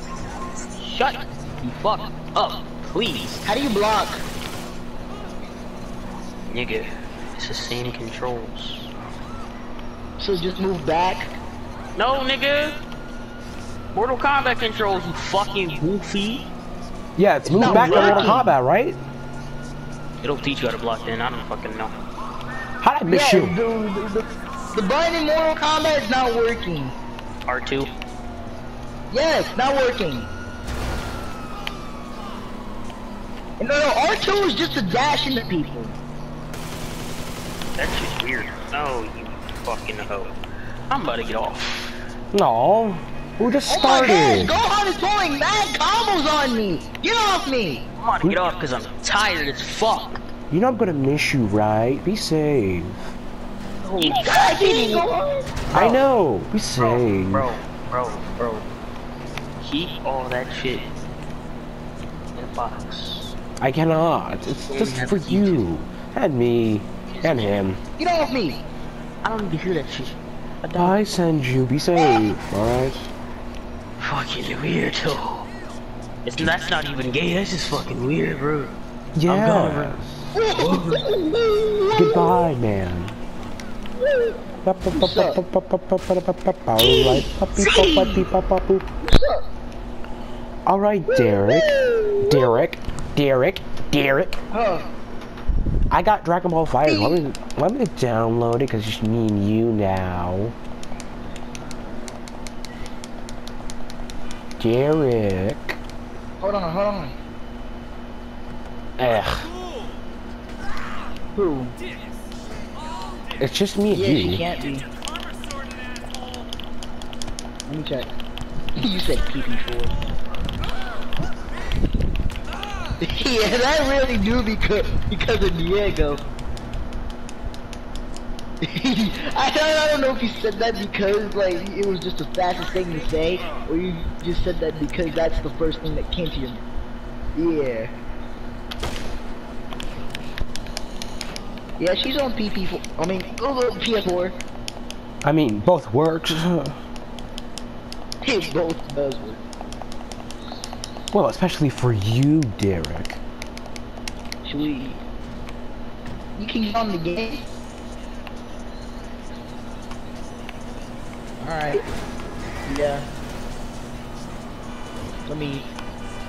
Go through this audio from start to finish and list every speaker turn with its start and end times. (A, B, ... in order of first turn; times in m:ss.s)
0:00.8-0:03.4 A
0:03.4-0:04.2 B
0:06.5-0:08.9 A
0:10.2-0:11.3 B
0:12.0-0:12.8 A
0:13.9-0:16.5 A
0:17.2-0:19.0 C
0:17.4-0:18.5 B
0:17.6-0:18.4 A
0:20.2-0:21.9 A
0:22.8-0:23.6 C
0:23.0-0:26.9 B
0:27.4-0:27.9 A
0:29.1-0:30.3 B
0:33.6-0:35.9 B
0:37.8-0:40.3 A
0:40.9-0:41.9 A
0:42.3-0:44.5 C
0:43.7-0:47.8 B
0:48.0-0:50.2 A
0:50.5-0:53.1 C
0:53.8-0:55.1 A
0:54.0-0:55.5 B
0:55.7-0:57.5 C
0:55.7-0:56.0 A
0:56.8-0:58.6 A
0:59.6-1:00.9 A
1:02.3-1:03.3 A
1:03.6-1:07.8 C
1:04.7-1:05.6 B
1:08.0-1:08.6 B
1:09.2-1:11.0 A
1:10.8-1:13.1 C
1:14.0-1:15.5 A
1:16.2-1:21.0 A
1:19.1-1:20.2 C
1:20.3-1:22.4 B
1:21.9-1:23.1 C
1:24.6-1:28.8 C
1:24.9-1:25.4 B
1:26.9-1:27.9 B
1:27.7-1:28.2 A
1:29.0-1:29.4 B
1:30.6-1:31.7 C
1:31.1-1:32.6 B
1:32.2-1:34.4 C
1:34.5-1:34.9 B
1:35.9-1:40.5 C
1:36.8-1:37.2 B
1:44.6-1:45.8 C
1:46.4-1:47.2 B
1:49.0-1:49.4 C
1:51.3-1:51.8 B
1:53.4-1:54.4 C
1:53.9-1:54.9 B
1:57.7-1:58.1 B
1:58.8-2:00.0 B
2:03.0-2:06.2 B
2:08.6-2:16.6 B
2:17.4-2:17.9 B
2:21.8-2:24.4 B
2:25.2-2:26.8 C
2:28.2-2:29.4 B
2:31.1-2:33.2 C
2:34.4-2:35.0 B
2:36.4-2:37.4 B
2:41.4-2:41.8 B
2:42.6-2:43.1 B
2:45.2-2:45.7 B